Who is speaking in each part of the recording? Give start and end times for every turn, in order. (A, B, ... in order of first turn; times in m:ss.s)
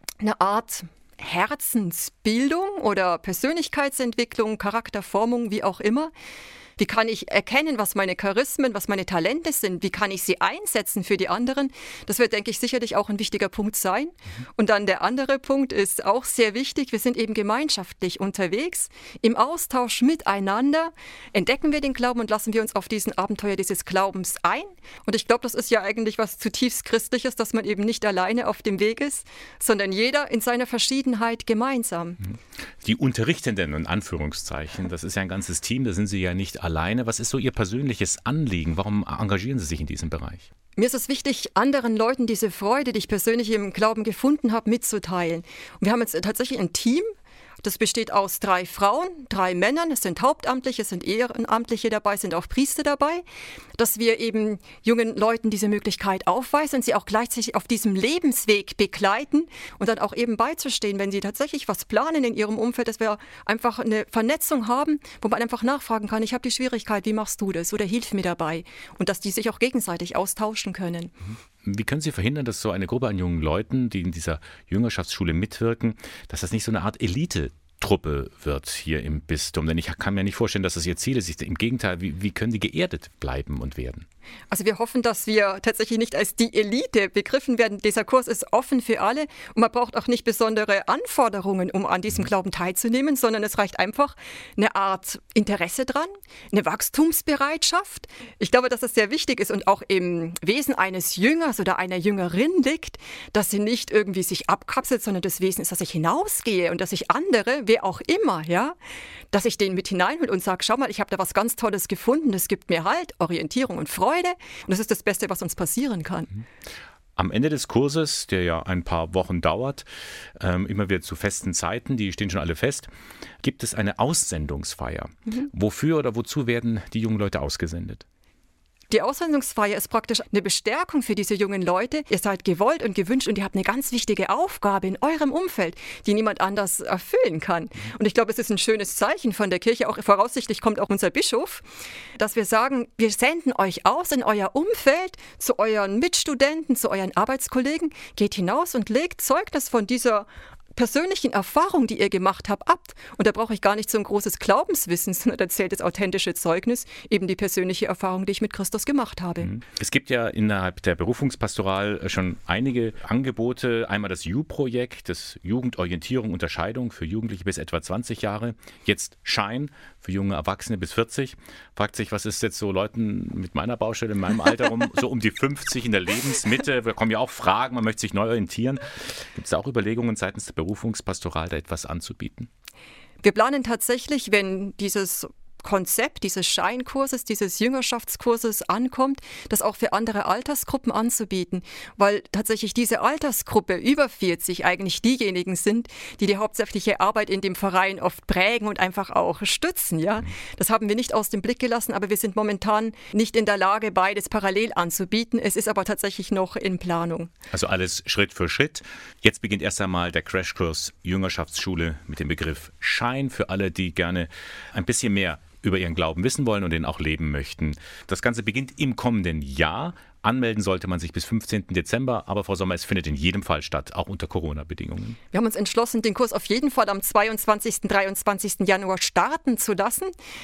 0:00.2-0:06.1 A
0:06.8-0:32.2 A
0:32.8-0:40.5 B
0:40.8-0:47.1 A
0:47.6-0:53.2 A
0:53.8-1:11.1 A
1:11.6-1:24.1 B
1:24.5-1:48.8 A
1:49.3-1:56.4 A
1:57.2-1:59.8 B
2:00.4-2:02.9 B
2:03.4-2:08.0 B
2:08.9-2:21.6 A
2:22.2-2:39.5 A
2:39.5-3:02.5 B
3:03.2-3:27.3 A
3:27.5-3:45.2 B
3:45.3-3:50.1 A